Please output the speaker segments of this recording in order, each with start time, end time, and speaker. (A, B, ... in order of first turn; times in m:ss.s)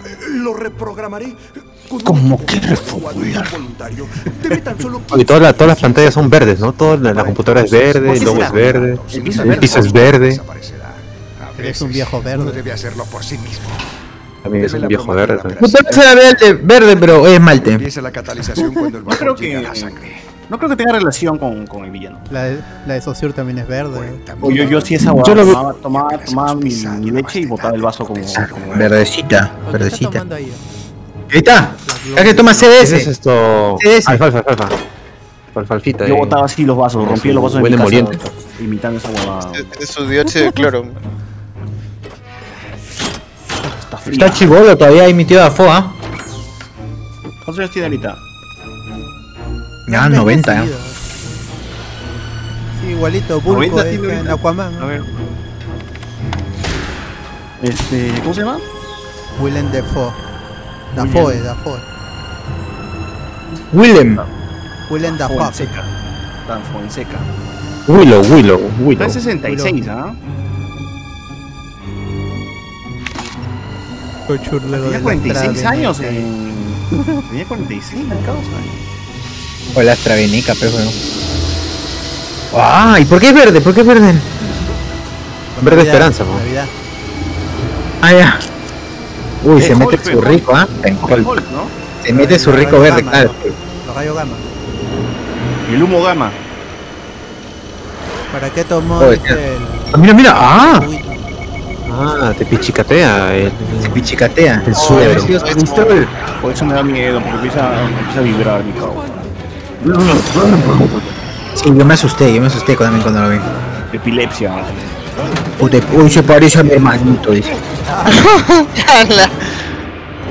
0:00.1-0:06.9 A
0:02.1-0:03.4 B
0:05.1-0:10.4 C
0:07.1-0:13.9 D
0:08.0-0:10.0 E
0:11.6-0:12.6 F
0:14.4-0:15.6 C
0:14.6-0:16.5 D
0:15.6-0:17.8 B
0:17.6-0:20.3 D
0:19.1-0:20.0 E
0:20.5-0:22.3 E
0:22.3-0:24.2 F
0:23.9-0:29.0 D
0:24.4-0:28.9 E
0:24.4-0:25.6 B
0:28.7-0:30.2 B
0:29.6-0:30.6 F
0:31.3-0:33.1 B
0:31.9-0:32.7 F
0:32.7-0:34.8 C
0:33.8-0:34.2 B
0:35.5-0:36.4 C
0:36.0-0:39.7 E
0:37.0-0:38.2 C
0:39.5-0:40.9 G
0:43.6-0:44.5 E
0:44.1-0:46.0 B
0:47.4-0:48.2 E
0:49.9-0:50.7 B
0:49.9-0:51.1 F
0:52.8-0:54.9 F
0:53.5-0:55.2 E
0:57.6-0:58.6 E
0:59.4-1:00.2 F
1:00.9-1:01.9 F
1:01.0-1:01.4 E
1:03.7-1:04.2 B
1:04.9-1:05.8 F
1:05.0-1:05.9 E
1:06.5-1:07.3 E
1:07.9-1:09.2 C
1:08.8-1:10.2 E
1:09.4-1:09.9 F
1:14.3-1:16.3 F
1:14.7-1:18.8 E
1:19.7-1:21.0 B
1:22.5-1:24.3 B
1:25.6-1:26.7 F
1:25.6-1:26.4 C
1:28.0-1:28.4 B
1:29.4-1:31.2 B
1:29.6-1:30.5 E
1:31.1-1:31.7 E
1:32.0-1:33.4 B
1:32.1-1:34.4 F
1:35.7-1:36.4 E
1:38.3-1:41.2 F
1:39.0-1:39.4 B
1:39.9-1:40.9 B
1:41.9-1:44.1 C
1:43.7-1:46.1 B
1:44.7-1:45.4 C
1:45.4-1:46.0 G
1:46.4-1:49.2 E
1:49.8-1:51.0 E
1:51.6-1:53.5 B
1:53.9-1:54.8 E
1:55.6-1:57.5 B
1:55.6-1:57.5 A
1:58.1-1:59.4 G